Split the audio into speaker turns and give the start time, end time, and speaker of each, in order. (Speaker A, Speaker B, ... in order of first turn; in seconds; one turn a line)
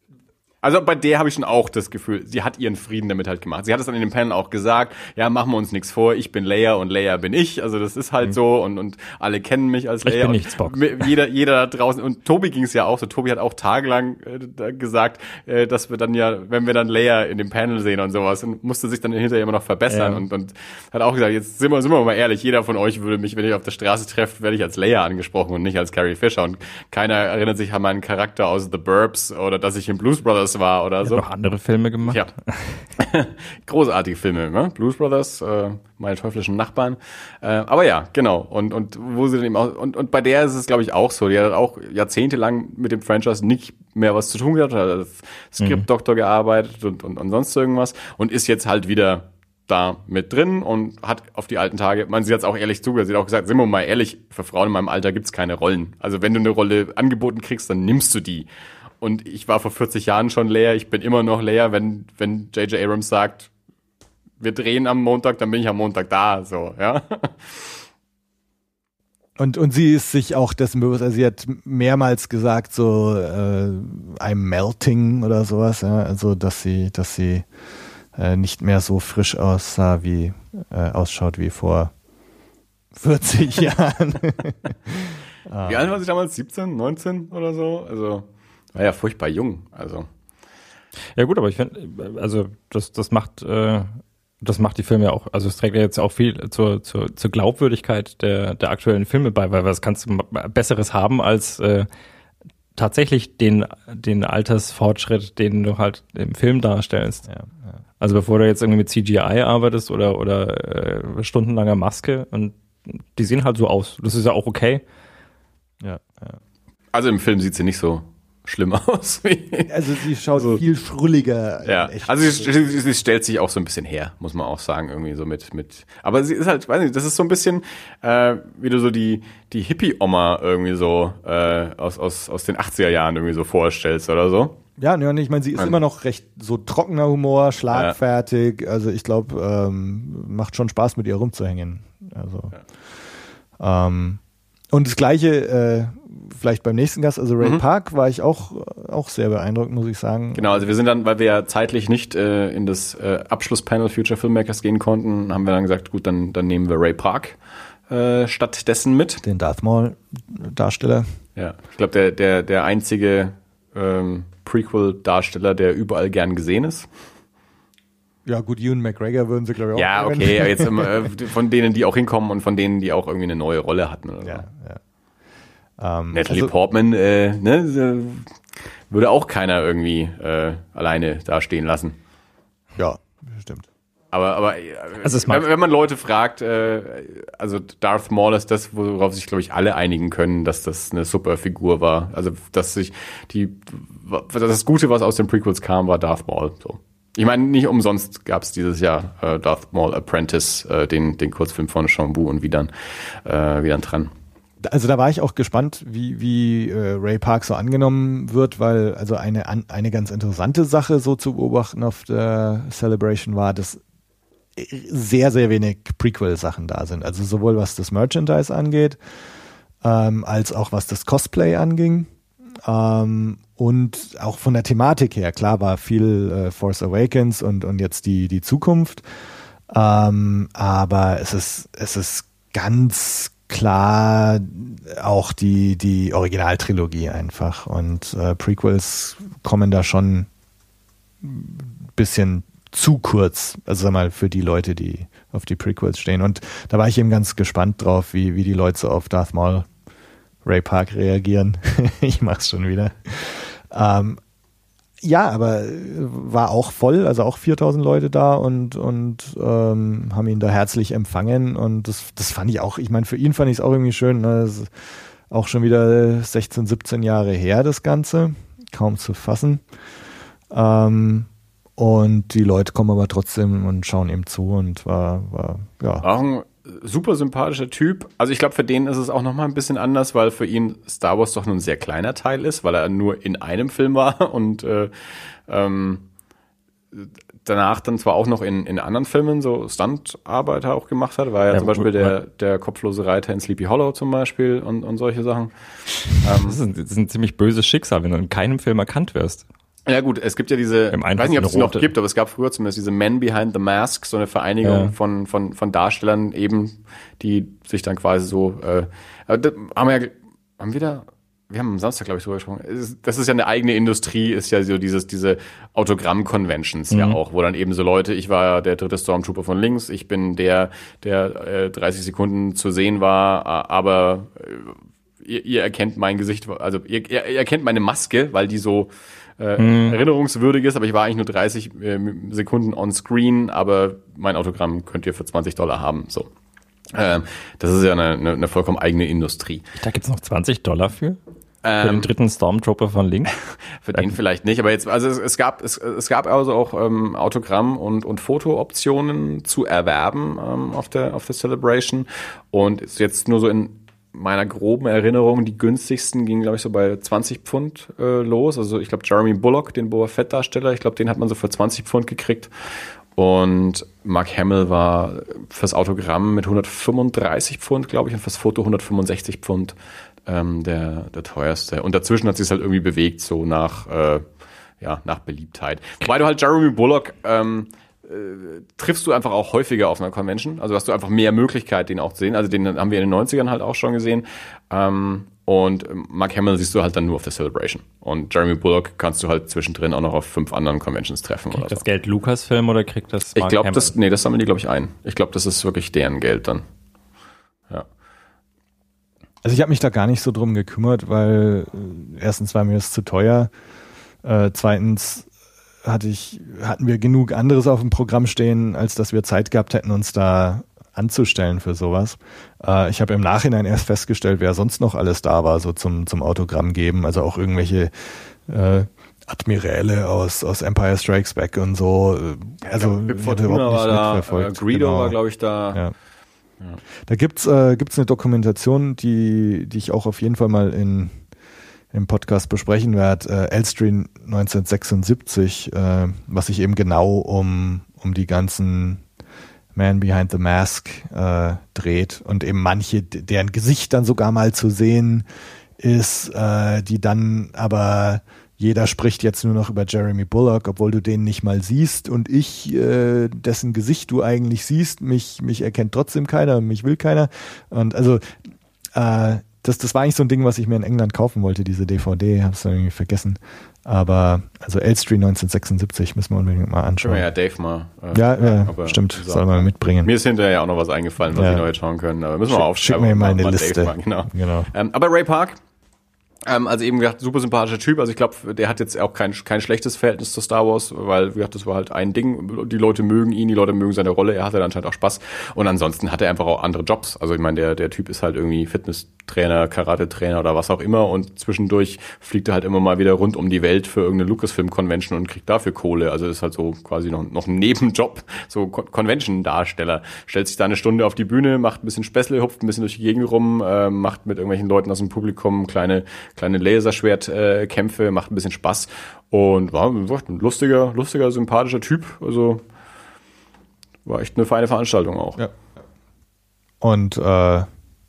Speaker A: 0.6-31.2
Speaker B: 10.1-11.1
Speaker B: 19.9-20.2
Speaker B: 31.0-32.9
Speaker A: 32.1-32.3
Speaker A: 33.0-58.5
Speaker A: 59.0-63.5
Speaker A: 64.4-67.8
Speaker C: 69.4-77.5
Speaker C: 78.2-81.9
Speaker C: 82.9-85.9
Speaker A: 85.6-90.1
Speaker B: 91.2-101.9
Speaker B: 102.8-107.3
Speaker C: 107.3-107.8
Speaker B: 108.0-114.8
Speaker C: 115.8-116.4
Speaker A: 116.9-119.8
Speaker C: 119.7-122.5
Speaker A: 120.3-120.6
Speaker A: 121.6-134.6
Speaker C: 134.8-142.5
Speaker A: 137.7-138.0
Speaker C: 143.6-144.2
Speaker C: 144.7-150.7
Speaker A: 150.3-157.4
Speaker A: 157.9-159.2
Speaker C: 159.2-161.1
Speaker A: 161.4-166.9
Speaker C: 168.2-170.9
Speaker A: 169.8-174.4
Speaker C: 174.2-174.8
Speaker C: 175.8-176.5
Speaker A: 176.1-178.4
Speaker A: 178.9-182.0
Speaker C: 182.8-183.7
Speaker A: 184.1-204.1
Speaker B: 185.0-185.5
Speaker C: 204.6-213.8
Speaker C: 214.6-219.0
Speaker C: 219.8-222.1
Speaker C: 222.7-229.0
Speaker C: 229.7-240.3
Speaker C: 241.2-249.7
Speaker C: 250.4-254.2
Speaker C: 255.0-264.7
Speaker C: 265.3-269.6
Speaker C: 270.5-276.1
Speaker A: 276.0-286.1
Speaker A: 286.9-295.5
Speaker B: 291.5-292.2
Speaker A: 296.1-296.6
Speaker B: 296.3-299.4
Speaker A: 299.9-336.3
Speaker B: 300.9-301.9
Speaker B: 304.6-304.9
Speaker B: 316.9-317.2
Speaker B: 329.6-330.0
Speaker A: 336.9-339.7
Speaker B: 339.8-341.2
Speaker A: 341.6-342.1
Speaker B: 341.8-343.3
Speaker A: 343.8-362.5
Speaker A: 363.2-369.8
Speaker A: 370.3-374.2
Speaker A: 374.8-391.8
Speaker B: 391.5-393.9
Speaker A: 393.4-396.6
Speaker C: 399.4-403.5
Speaker C: 404.2-405.3
Speaker C: 405.8-425.2
Speaker A: 422.6-425.8
Speaker C: 427.1-431.2
Speaker C: 431.9-439.0
Speaker C: 439.8-445.2
Speaker C: 445.8-458.4
Speaker C: 458.9-467.3
Speaker A: 467.0-475.6
Speaker C: 468.1-470.1
Speaker C: 471.3-471.7
Speaker C: 472.5-474.7
Speaker A: 476.5-512.6
Speaker A: 514.0-515.4
Speaker C: 516.8-517.7